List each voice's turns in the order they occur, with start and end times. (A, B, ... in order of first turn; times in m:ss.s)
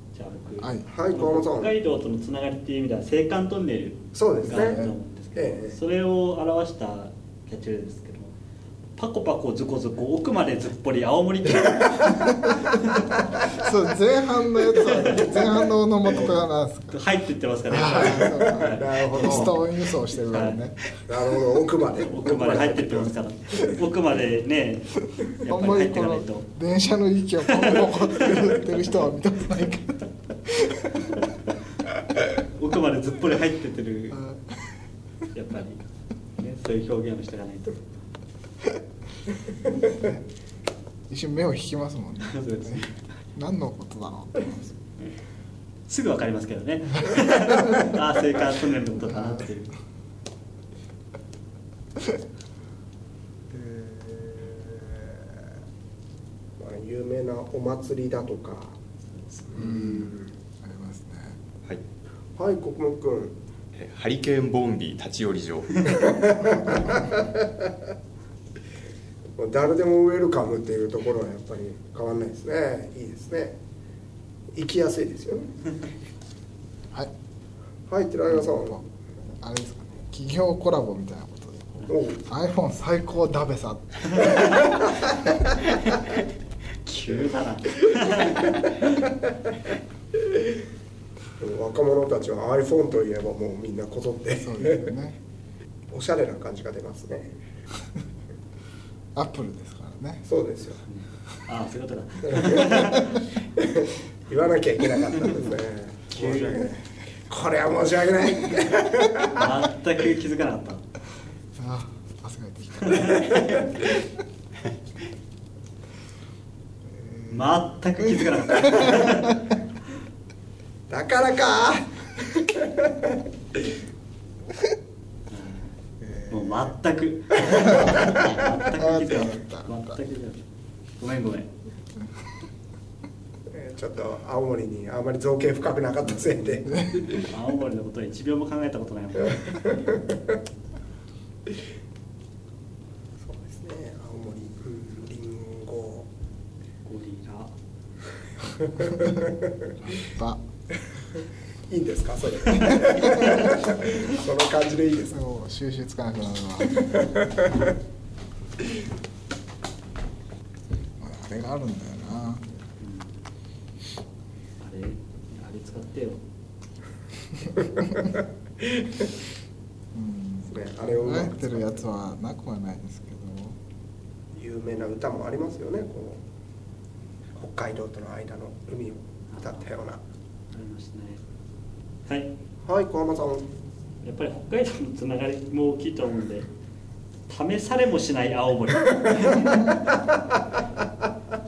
0:00.1-0:08.3 A
0:00.6-0:00.9 B
0:00.9-0:01.7 C
0:04.2-0:05.8 C
0:04.5-0:05.0 B
0:09.0-0:12.9 A
0:13.6-0:17.0 B
0:14.8-0:16.3 A
0:16.9-0:20.7 A
0:17.7-0:20.8 B
0:18.0-0:19.5 C
0:21.1-0:23.7 C
0:22.0-0:26.5 A
0:25.5-0:31.1 B
0:27.5-0:28.4 A
0:32.6-0:34.2 A
0:34.1-0:34.8 B
0:35.3-0:35.9 A
0:36.4-0:38.0 A
0:39.9-0:40.2 B
0:41.1-0:42.8 B
0:42.2-0:43.0 A
0:43.4-0:44.7 B
0:45.9-0:49.7 A
0:49.1-0:49.5 B
0:53.5-0:54.4 B
0:56.6-0:58.8 C
0:59.5-1:00.3 C
0:59.6-1:01.4 B
1:02.4-1:03.4 C
1:03.7-1:06.2 D
1:06.0-1:07.8 C
1:06.4-1:07.3 B
1:09.4-1:13.6 C
1:14.6-1:15.5 C
1:17.9-1:18.8 C
1:18.3-1:24.4 B
1:21.9-1:22.2 C
1:26.8-1:28.8 A
1:27.9-1:28.4 C
1:31.4-1:34.8 C
1:34.4-1:35.2 B
1:35.9-1:37.3 C
1:39.2-1:40.3 B
1:40.3-1:40.8 C
1:40.9-1:43.2 A
1:42.3-1:42.7 C
1:43.6-1:49.5 C
1:46.1-1:46.7 A
1:49.3-1:50.8 A
1:51.6-1:53.2 B
1:53.2-1:53.6 C
1:56.9-1:59.3 B
1:57.3-1:59.5 A
2:00.9-2:03.2 C
2:05.3-2:05.7 A
2:06.0-2:06.7 B
2:06.3-2:10.4 A
2:08.7-2:10.0 B
2:11.0-2:11.5 A
2:13.5-2:17.2 C
2:16.1-2:17.1 B
2:17.2-2:19.8 A
2:23.2-2:26.1 C
2:26.8-2:27.5 A
2:28.6-2:29.7 C
2:29.8-2:30.4 B
2:31.7-2:35.2 C
2:35.1-2:36.9 B
2:36.9-2:37.5 C
2:41.0-2:42.5 B
2:42.8-2:43.1 A
2:44.6-2:46.2 A
2:48.6-2:48.9 C
2:49.9-2:53.6 B
2:50.5-2:51.8 C
2:54.4-2:56.2 C
2:57.4-3:00.0 C
3:00.5-3:01.2 A
3:02.6-3:03.4 C
3:04.0-3:06.5 A
3:07.3-3:09.8 A